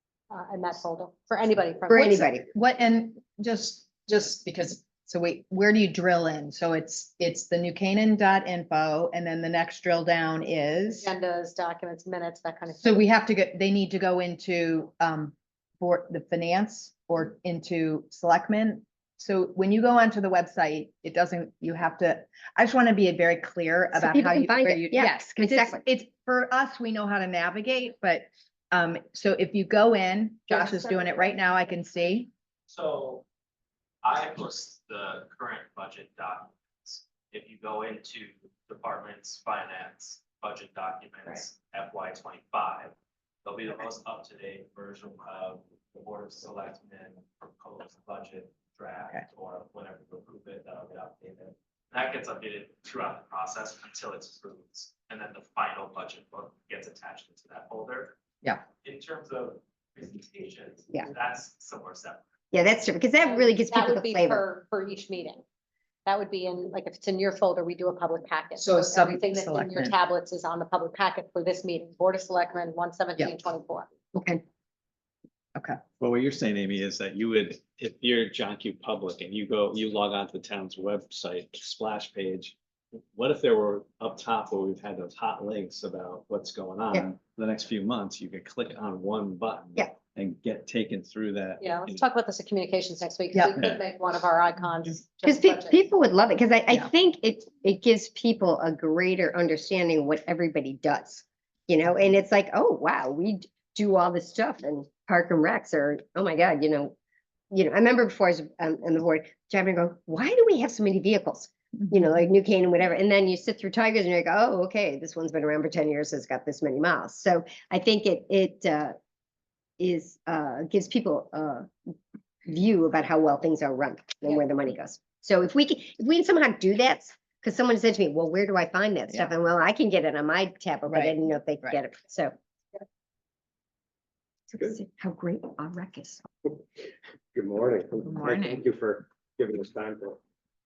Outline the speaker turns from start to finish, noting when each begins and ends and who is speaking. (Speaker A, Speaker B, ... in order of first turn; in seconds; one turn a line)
Speaker A: 0.3-2.2
Speaker B: 1.9-2.5
Speaker C: 1.9-11.1
Speaker A: 11.0-13.0
Speaker C: 12.8-32.3
Speaker B: 23.9-25.8
Speaker A: 30.5-31.2
Speaker D: 32.7-33.2
Speaker D: 34.0-42.9
Speaker D: 43.4-58.1
Speaker D: 58.8-62.2
Speaker B: 62.5-64.4
Speaker A: 63.2-65.4
Speaker A: 66.0-73.9
Speaker C: 68.6-69.9
Speaker B: 74.1-74.4
Speaker E: 76.0-82.5
Speaker D: 76.2-82.5
Speaker D: 83.1-91.4
Speaker E: 83.2-85.8
Speaker E: 87.3-92.0
Speaker A: 91.6-95.9
Speaker B: 95.2-106.9
Speaker B: 107.5-119.0
Speaker B: 119.8-121.7
Speaker B: 122.5-132.3
Speaker C: 130.9-131.1
Speaker B: 134.5-136.2
Speaker F: 137.3-140.2
Speaker C: 138.0-138.6